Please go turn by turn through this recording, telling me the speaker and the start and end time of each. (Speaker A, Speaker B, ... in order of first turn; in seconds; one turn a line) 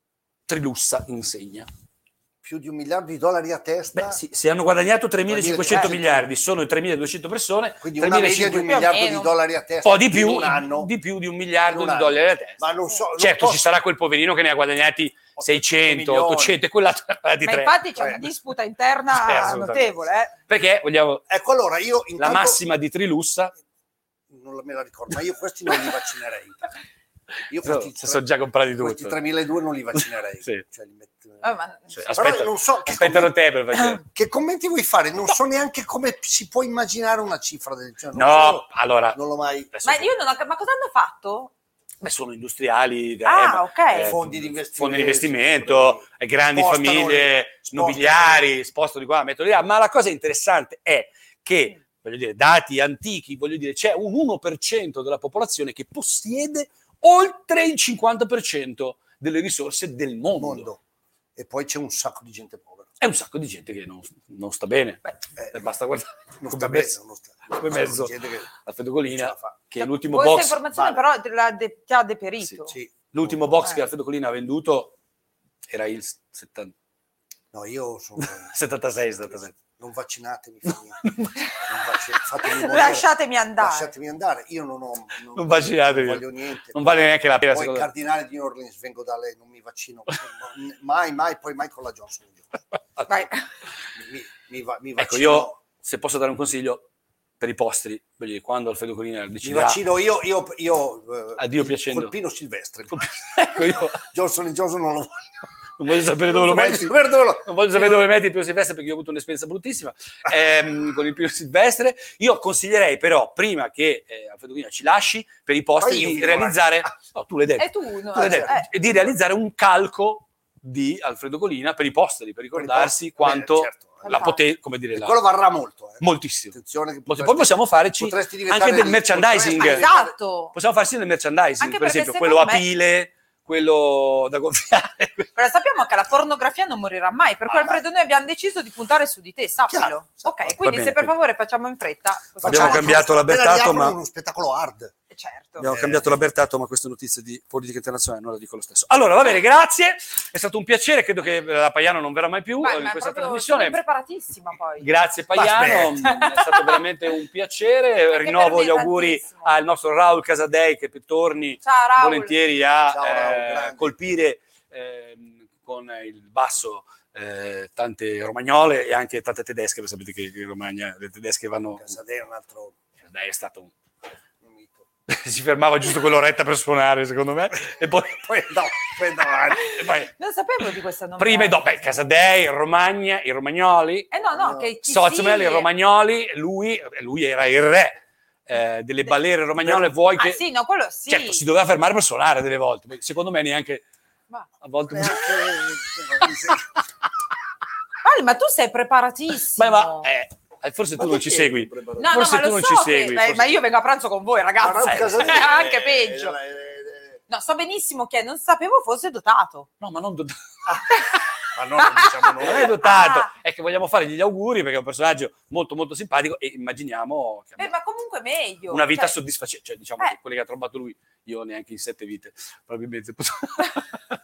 Speaker A: 0.5-1.7
Speaker B: 2.4-4.2
Speaker A: 3.9-8.8
Speaker B: 5.3-6.2
Speaker C: 5.7-6.0
Speaker B: 7.8-10.9
Speaker C: 8.5-9.4
Speaker A: 9.8-12.6
Speaker B: 11.7-13.7
Speaker A: 13.2-17.8
Speaker B: 15.4-16.6
Speaker C: 17.4-20.3
Speaker B: 18.0-18.2
Speaker A: 19.1-19.9
Speaker A: 20.5-21.2
Speaker B: 21.3-22.6
Speaker A: 22.2-23.5
Speaker B: 24.3-26.8
Speaker B: 27.5-28.2
Speaker A: 27.6-29.2
Speaker B: 28.8-31.5
Speaker C: 31.4-32.1
Speaker A: 31.9-34.0
Speaker B: 32.1-33.3
Speaker B: 34.0-39.7
Speaker A: 38.1-39.2
Speaker A: 39.7-40.1
Speaker C: 39.8-41.5
Speaker A: 42.0-60.7
Speaker C: 43.2-44.1
Speaker B: 43.9-48.5
Speaker B: 60.4-60.8
Speaker B: 61.4-62.9
Speaker A: 63.0-65.0
Speaker B: 65.4-65.6
Speaker A: 65.5-67.0
Speaker B: 66.4-68.5
Speaker A: 67.5-70.6
Speaker B: 69.1-69.6
Speaker C: 69.8-72.7
Speaker B: 70.7-71.0
Speaker B: 72.7-73.4
Speaker A: 73.1-75.0
Speaker A: 75.7-76.7
Speaker B: 77.5-78.5
Speaker A: 78.2-79.5
Speaker B: 79.3-81.0
Speaker A: 81.0-81.4
Speaker B: 81.7-92.5
Speaker C: 82.5-83.9
Speaker A: 85.3-87.9
Speaker A: 93.0-93.3
Speaker C: 93.1-93.5
Speaker B: 94.0-95.5
Speaker A: 95.0-96.9
Speaker A: 97.4-99.8
Speaker B: 99.4-103.0
Speaker A: 101.4-102.1
Speaker A: 102.9-104.1
Speaker B: 103.9-105.3
Speaker A: 105.8-125.2
Speaker B: 106.2-107.8
Speaker B: 115.8-116.9
Speaker C: 117.6-118.7
Speaker B: 118.2-118.6
Speaker B: 122.5-124.3
Speaker C: 124.0-124.4
Speaker B: 125.0-130.1
Speaker A: 126.0-126.6
Speaker A: 127.1-129.9
Speaker C: 129.5-130.5
Speaker A: 130.5-135.3
Speaker C: 131.6-132.7
Speaker C: 135.3-143.1
Speaker B: 137.5-137.8
Speaker B: 139.7-140.5
Speaker A: 140.6-141.1
Speaker B: 142.4-144.9
Speaker A: 142.5-143.9
Speaker C: 145.1-145.7
Speaker A: 145.6-153.8
Speaker B: 145.6-146.1
Speaker C: 152.6-154.9
Speaker A: 154.8-172.0
Speaker B: 155.3-156.1
Speaker C: 156.0-156.8
Speaker C: 158.1-159.5
Speaker C: 161.6-162.6
Speaker B: 162.9-163.9
Speaker B: 171.8-172.8
Speaker A: 173.1-173.7
Speaker B: 174.4-174.8
Speaker A: 175.1-178.8
Speaker B: 178.3-179.8
Speaker C: 179.6-181.6
Speaker A: 179.6-180.1
Speaker A: 181.2-184.1
Speaker C: 184.1-185.7
Speaker B: 184.2-184.7
Speaker A: 184.8-190.4
Speaker B: 189.7-189.9
Speaker C: 190.1-191.4
Speaker A: 191.1-193.8
Speaker A: 194.6-196.3
Speaker B: 194.9-196.7
Speaker C: 198.0-200.1
Speaker A: 199.6-203.6
Speaker B: 201.0-202.1
Speaker C: 202.0-206.4
Speaker B: 204.6-207.2
Speaker A: 204.9-205.4
Speaker C: 207.3-209.7
Speaker A: 209.8-210.8
Speaker B: 211.5-212.7
Speaker A: 212.4-217.7
Speaker C: 212.6-213.3
Speaker C: 217.6-219.2
Speaker A: 218.7-224.1